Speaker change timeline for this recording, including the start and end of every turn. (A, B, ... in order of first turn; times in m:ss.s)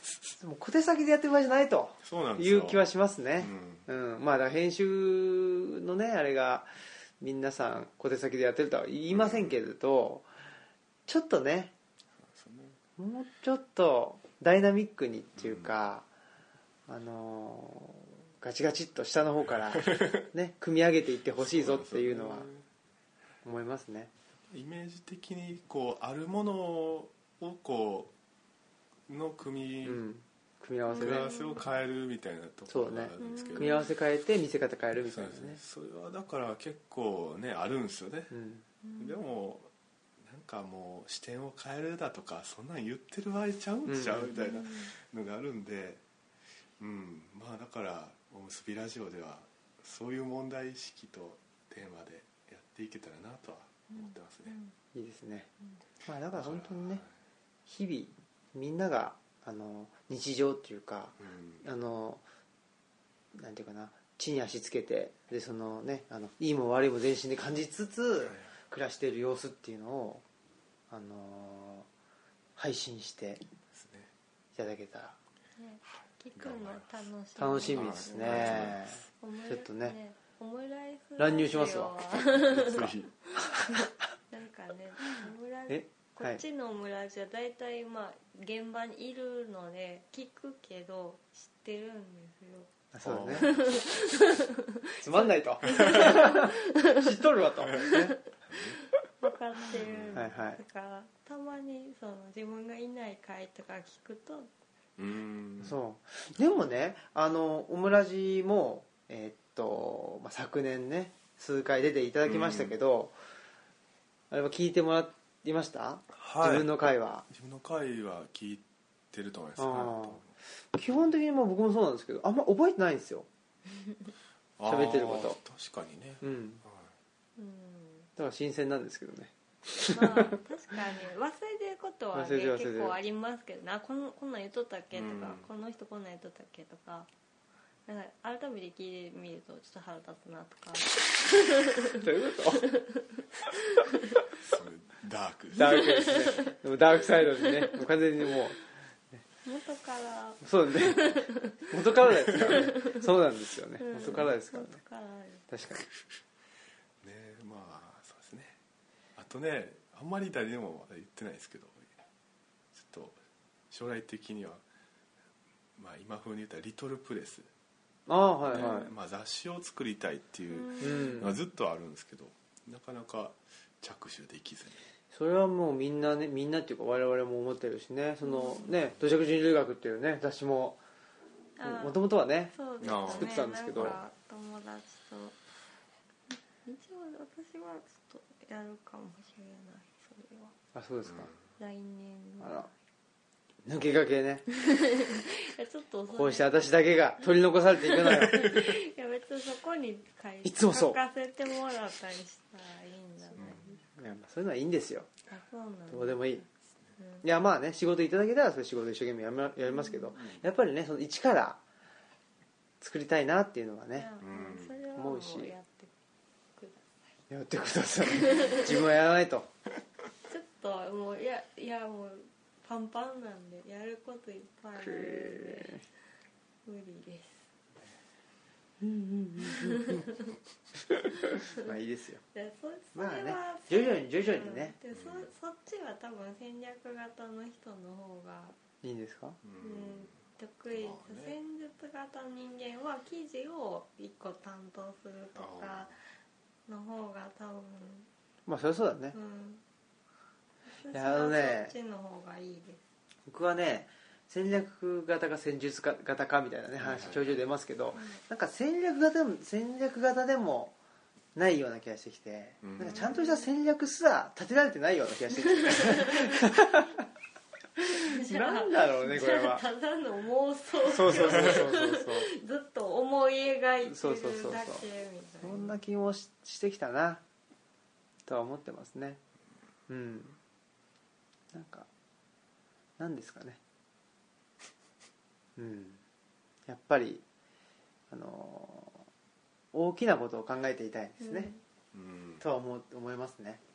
0:00.4-0:10.3 A
0:02.0-0:02.9 B
0:03.4-0:03.8 B
0:09.1-0:09.5 B
0:11.1-0:11.7 A
0:12.2-0:12.8 B
0:13.0-0:16.1 A
0:15.4-0:15.7 B
0:16.9-0:22.5 A
0:19.7-0:20.2 B
0:21.4-0:22.6 B
0:23.4-0:24.1 A
0:24.5-0:28.1 B
0:29.1-0:30.0 B
0:29.8-0:31.3 A
0:30.9-0:31.7 C
0:31.0-0:33.8 B
0:32.7-0:35.6 A
0:33.2-0:33.9 C
0:35.0-0:38.4 B
0:38.3-0:38.6 A
0:38.8-0:39.2 C
0:39.0-0:46.0 B
0:43.9-0:44.3 A
0:44.3-0:44.9 C
0:46.8-0:54.6 B
0:53.9-0:54.8 C
0:54.9-0:55.5 A
0:56.0-0:57.0 A
0:56.3-0:57.1 B
0:57.7-1:02.2 A
1:01.2-1:01.6 B
1:03.3-1:10.2 A
1:08.2-1:08.5 B
1:10.9-1:11.9 A
1:12.6-1:13.4 A
1:13.7-1:14.1 B
1:14.6-1:15.2 A
1:15.6-1:32.7 C
1:15.9-1:17.0 B
1:17.4-1:20.0 A
1:17.7-1:19.0 B
1:21.2-1:22.0 A
1:22.5-1:23.1 B
1:23.6-1:23.9 A
1:25.7-1:26.4 A
1:32.9-1:33.5 A
1:33.0-1:33.9 B
1:33.3-1:37.1 C
1:35.0-1:38.2 A
1:35.8-1:36.0 B
1:37.6-1:37.9 B
1:37.8-1:38.0 C
1:38.4-1:38.8 B
1:39.2-1:44.5 C
1:39.7-1:40.5 B
1:40.1-1:40.6 A
1:45.0-1:45.8 B
1:45.6-1:53.2 A
1:52.2-1:52.7 B
1:54.3-1:57.3 A
1:56.1-2:00.3 B
1:59.6-2:00.2 A
2:00.7-2:03.3 A
2:04.6-2:06.9 B
2:04.7-2:05.4 A
2:06.2-2:06.6 A
2:07.4-2:08.1 C
2:08.2-2:10.4 A
2:09.9-2:17.1 C
2:12.1-2:13.0 A
2:14.9-2:15.4 B
2:17.9-2:24.2 C
2:22.0-2:22.6 A
2:24.4-2:26.2 B
2:25.6-2:29.2 A
2:25.6-2:26.6 C
2:27.3-2:27.7 C
2:29.4-2:31.7 C
2:30.4-2:31.1 A
2:31.7-2:34.8 A
2:32.3-2:33.0 C
2:33.8-2:35.4 C
2:35.5-2:35.8 A
2:37.0-2:38.6 B
2:39.2-2:41.9 B
2:42.7-2:43.2 B
2:43.7-2:44.6 B
2:45.8-2:47.5 B
2:48.1-2:48.9 A
2:48.5-2:54.8 B
2:48.5-2:48.9 C
2:50.5-2:51.3 C
2:50.8-2:51.4 A
2:55.1-3:00.8 A
2:58.2-2:58.7 C
2:58.7-2:58.9 B
3:01.6-3:05.4 C
3:01.6-3:04.0 A
3:02.8-3:04.0 B
3:06.3-3:10.6 C
3:10.8-3:11.3 A
3:11.0-3:11.4 B
3:11.6-3:12.7 C
3:12.4-3:12.7 A
3:13.6-3:14.5 A
3:14.6-3:16.6 C
3:16.1-3:18.7 A
3:17.8-3:23.8 C
3:20.4-3:21.0 A
3:23.4-3:23.7 B
3:23.4-3:25.1 A
3:25.3-3:26.4 C
3:25.9-3:26.4 A
3:27.0-3:27.2 C
3:27.2-3:31.6 A
3:29.7-3:30.1 C
3:32.8-3:34.1 A
3:34.0-3:35.9 C
3:34.2-3:34.8 B
3:35.0-3:35.5 A
3:36.6-3:37.2 C
3:37.3-3:39.5 A
3:38.1-3:38.7 C
3:40.3-3:45.8 C
3:44.8-3:45.8 A
3:46.6-3:47.5 C
3:48.8-3:50.0 A
3:49.4-3:50.2 C
3:50.9-3:52.2 A
3:51.2-3:51.7 C
3:52.3-3:58.6 C
3:53.0-3:54.8 A
3:54.9-3:55.3 B
3:58.8-3:59.4 A
3:59.4-4:00.2 B
3:59.6-4:05.9 C
4:00.7-4:01.4 B
4:05.4-4:06.0 B
4:06.7-4:08.1 C
4:08.5-4:09.2 A
4:09.1-4:09.6 C
4:10.7-4:12.8 C
4:10.9-4:11.7 A
4:13.3-4:20.8 A
4:16.8-4:17.4 B
4:21.4-4:27.1 A
4:22.6-4:23.0 B
4:22.8-4:23.5 C
4:25.4-4:26.6 C
4:27.9-4:35.8 C
4:28.1-4:29.6 A
4:30.9-4:32.3 A
4:31.2-4:31.5 B
4:33.8-4:34.8 A
4:35.4-4:37.2 A
4:38.3-4:39.2 A
4:39.9-4:40.4 A
4:41.5-4:41.9 A
4:43.0-4:43.6 A
4:45.6-4:46.0 A
4:46.7-4:47.2 A
4:48.1-4:49.1 A
4:49.7-4:51.5 A
4:51.2-4:51.6 C
4:51.9-4:52.4 B
4:52.4-4:53.6 A